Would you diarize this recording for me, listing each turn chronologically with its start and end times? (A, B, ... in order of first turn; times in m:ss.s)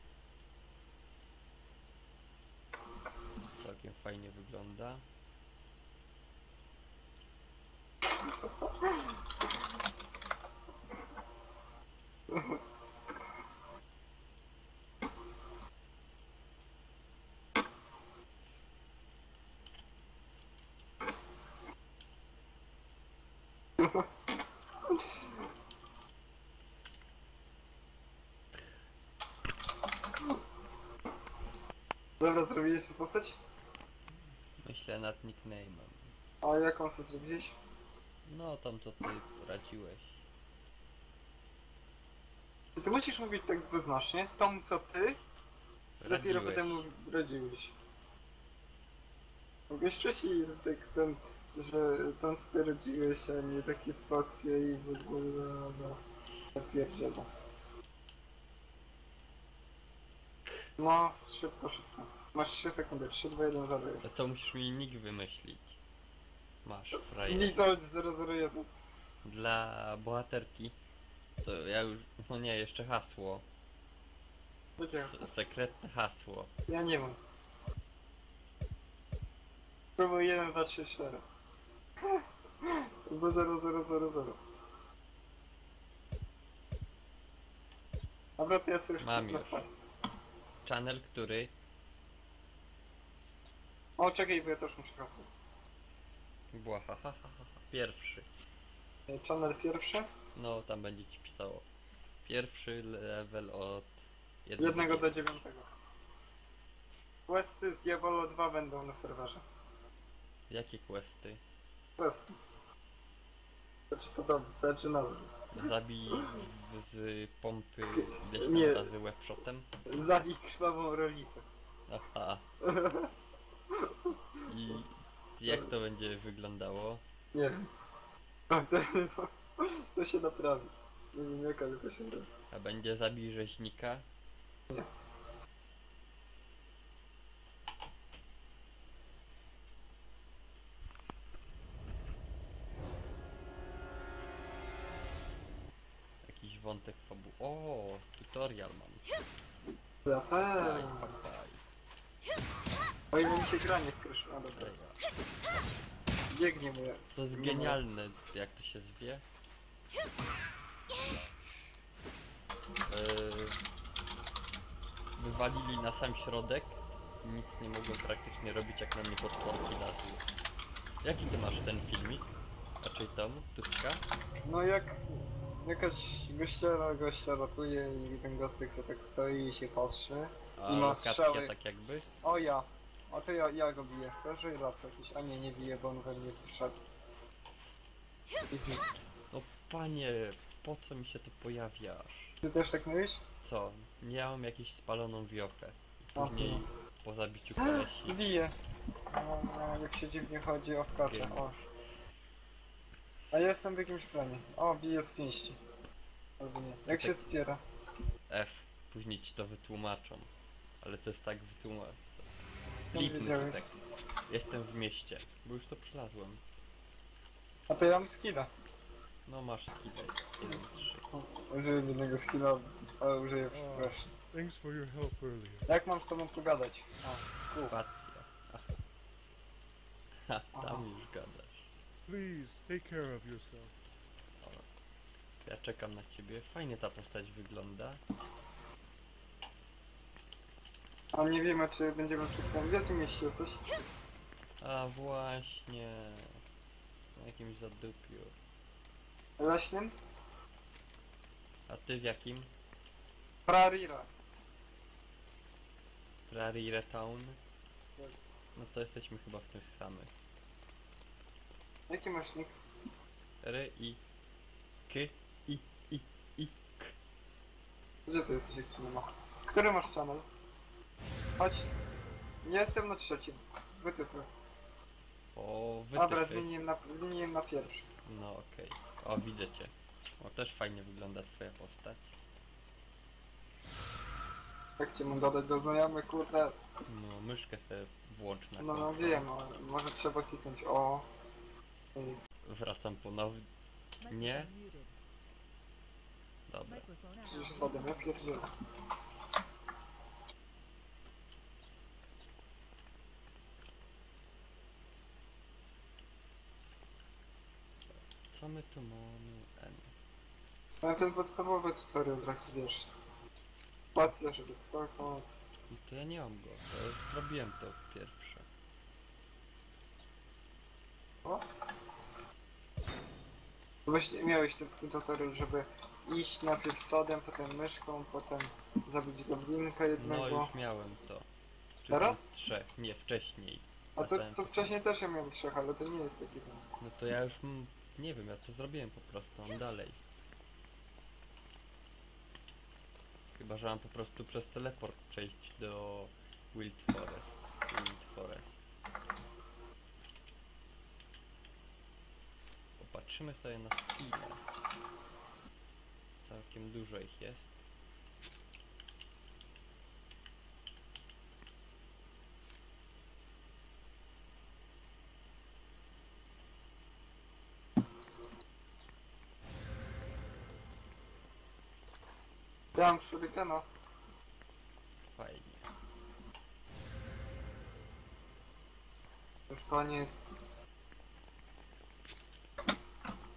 0:03.6-0:05.0 A
0:23.8-0:24.0 B
0:24.9-0:25.3 B
0:32.2-0:33.4 B
0:34.6-0:36.1 A
0:36.4-0:37.5 B
0:38.2-0:40.2 A
0:42.8-0:45.2 B
0:46.0-0:46.8 A
0:46.0-0:47.7 B
0:49.7-0:56.0 B
0:56.5-0:57.3 B
1:00.8-1:04.0 B
1:04.0-1:05.8 A
1:06.6-1:07.6 A
1:07.2-1:08.7 B
1:09.2-1:10.8 A
1:11.4-1:13.4 A
1:14.8-1:15.3 B
1:14.9-1:16.5 A
1:16.7-1:17.2 B
1:20.0-1:21.2 B
1:22.0-1:24.4 B
1:28.4-1:29.7 B
1:29.0-1:29.6 A
1:30.6-1:31.5 A
1:34.0-1:35.3 B
1:36.5-1:38.3 A
1:39.1-1:40.1 B
1:40.3-1:41.7 A
1:42.2-1:45.4 A
1:44.6-1:45.7 B
1:47.3-1:49.4 B
1:50.5-1:51.4 A
1:52.0-1:52.3 B
1:53.9-1:55.3 B
1:55.5-1:59.7 A
1:57.9-1:58.9 B
1:59.9-2:01.4 B
2:01.9-2:02.4 A
2:02.6-2:03.1 B
2:03.7-2:04.4 B
2:04.4-2:07.0 A
2:07.3-2:07.7 B
2:08.5-2:12.3 B
2:12.5-2:14.0 A
2:26.2-2:29.0 A
2:30.0-2:31.2 B
2:30.5-2:31.6 A
2:33.1-2:34.7 B
2:34.6-2:35.0 A
2:36.3-2:37.8 B
2:37.1-2:39.2 A
2:42.9-2:43.6 A
2:45.2-2:50.2 A
2:51.0-2:52.3 A
2:52.8-2:54.0 A
2:54.4-3:01.5 B
3:00.6-3:02.1 A
3:02.2-3:06.8 B
3:08.5-3:08.8 B
3:09.3-3:12.4 A
3:12.4-3:13.2 B
3:13.4-3:18.2 A
3:16.2-3:16.6 B
3:17.6-3:18.5 B
3:19.1-3:21.5 B
3:21.0-3:21.7 A
3:23.3-3:25.6 B
3:26.4-3:27.6 B
3:26.9-3:27.2 A
3:28.3-3:30.3 A
3:30.8-3:32.3 A
3:32.9-3:33.8 A
3:32.9-3:33.6 B
3:34.3-3:36.4 A
3:37.7-3:38.5 B
3:39.2-3:41.1 A
3:41.1-3:44.1 B
3:43.5-3:45.6 C
3:45.7-3:47.8 B
3:47.7-3:48.8 A
3:50.3-3:51.7 A
3:50.5-3:50.8 B
3:52.1-3:53.7 C
3:54.4-3:54.6 A
3:55.4-3:58.0 A
4:01.1-4:03.6 B
4:04.6-4:06.4 A
4:07.2-4:08.4 A
4:09.4-4:09.9 B
4:11.7-4:12.5 A
4:13.5-4:14.1 B
4:16.3-4:17.4 A
4:18.6-4:20.1 A
4:21.9-4:22.5 B
4:23.4-4:24.0 A
4:24.9-4:26.9 A
4:28.1-4:30.2 B
4:31.4-4:31.7 B
4:32.4-4:34.3 B
4:35.3-4:36.5 A
4:35.9-4:37.9 B
4:38.0-4:42.1 A
4:44.8-4:46.6 B
4:46.9-4:49.3 A
4:48.6-4:51.1 B
4:52.4-4:53.4 A
4:54.0-4:54.5 A
4:56.5-4:56.9 A
4:57.3-4:58.5 B
5:08.3-5:09.9 A
5:10.8-5:12.9 B
5:13.9-5:15.3 B
5:15.7-5:18.4 A
5:23.8-5:30.5 B
5:30.0-5:31.3 A
5:31.8-5:34.7 A
5:31.9-5:32.3 B
5:34.0-5:36.6 B
5:36.8-5:40.0 A
5:43.4-5:48.5 A
5:52.8-5:54.4 A
5:56.2-5:57.5 A
6:12.7-6:13.6 B
6:15.0-6:15.7 A
6:19.5-6:20.3 B